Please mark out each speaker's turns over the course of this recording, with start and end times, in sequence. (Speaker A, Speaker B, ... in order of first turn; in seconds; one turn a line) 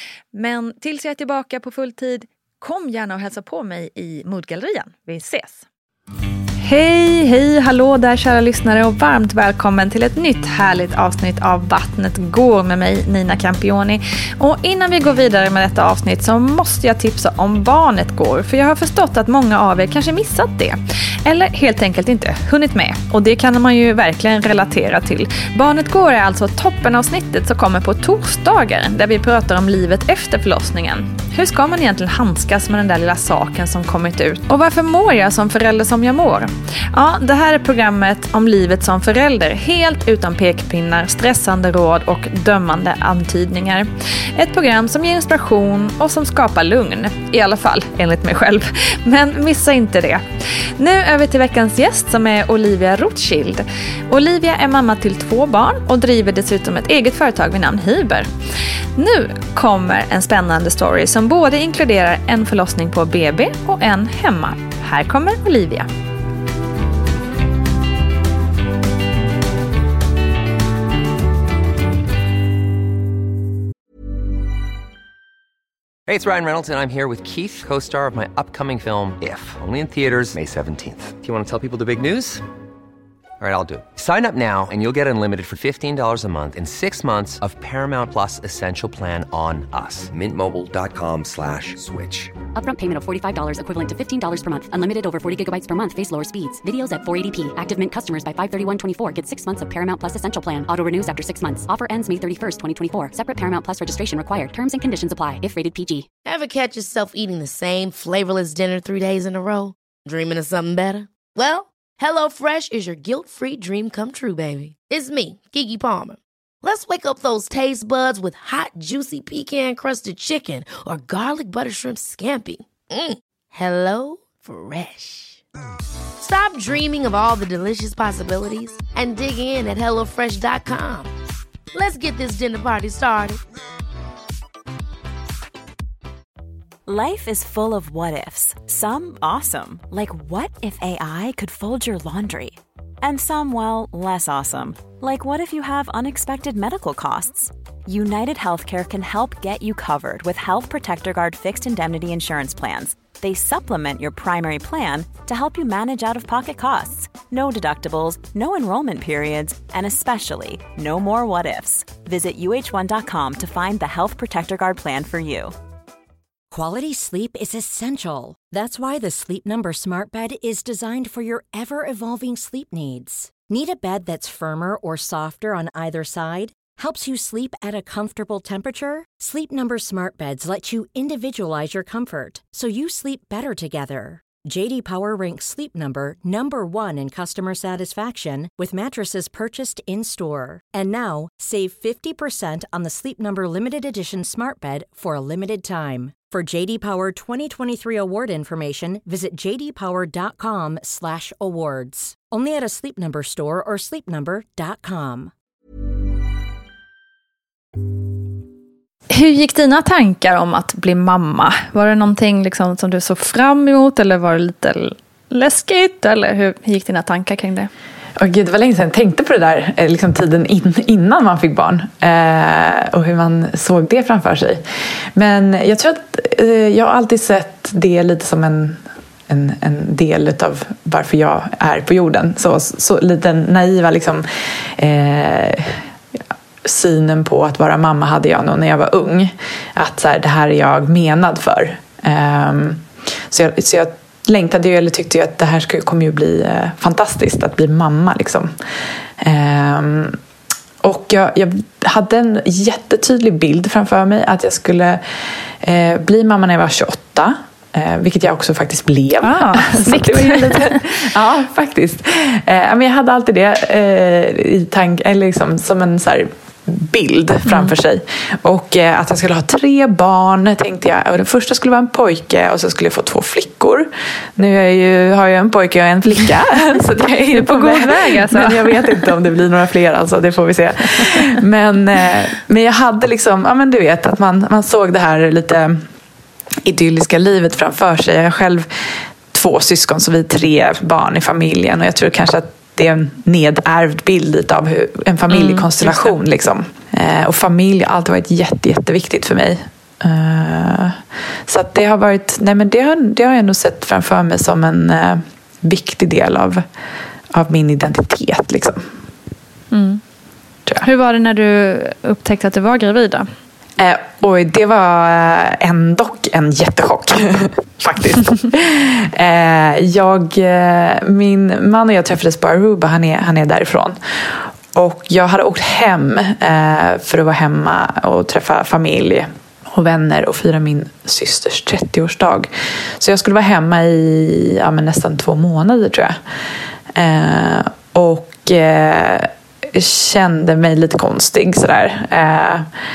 Speaker A: 0.3-5.6
Speaker A: 6.6-58.3
Speaker A: 59.0-65.9
Speaker B: 76.1-82.4
Speaker B: 83.4-92.4
Speaker C: 92.5-106.1
Speaker D: 106.3-125.4
Speaker D: 126.2-131.1
Speaker D: 131.7-133.4
Speaker E: 136.9-165.5
Speaker F: 166.5-205.3
Speaker A: 209.1-217.7
Speaker G: 218.2-224.6
Speaker G: 225.2-235.8
Speaker G: 236.6-248.5
Speaker G: 249.2-250.2
Speaker G: 250.8-255.0
Speaker G: 255.6-285.8
Speaker A: 259.2-260.9
Speaker A: 267.5-267.7
Speaker A: 277.3-278.8
Speaker G: 286.6-288.7
Speaker G: 289.3-306.6
Speaker A: 295.3-296.2
Speaker G: 307.3-308.9
Speaker A: 309.7-310.0
Speaker A: 310.8-313.3
Speaker G: 313.8-336.2
Speaker G: 336.9-342.7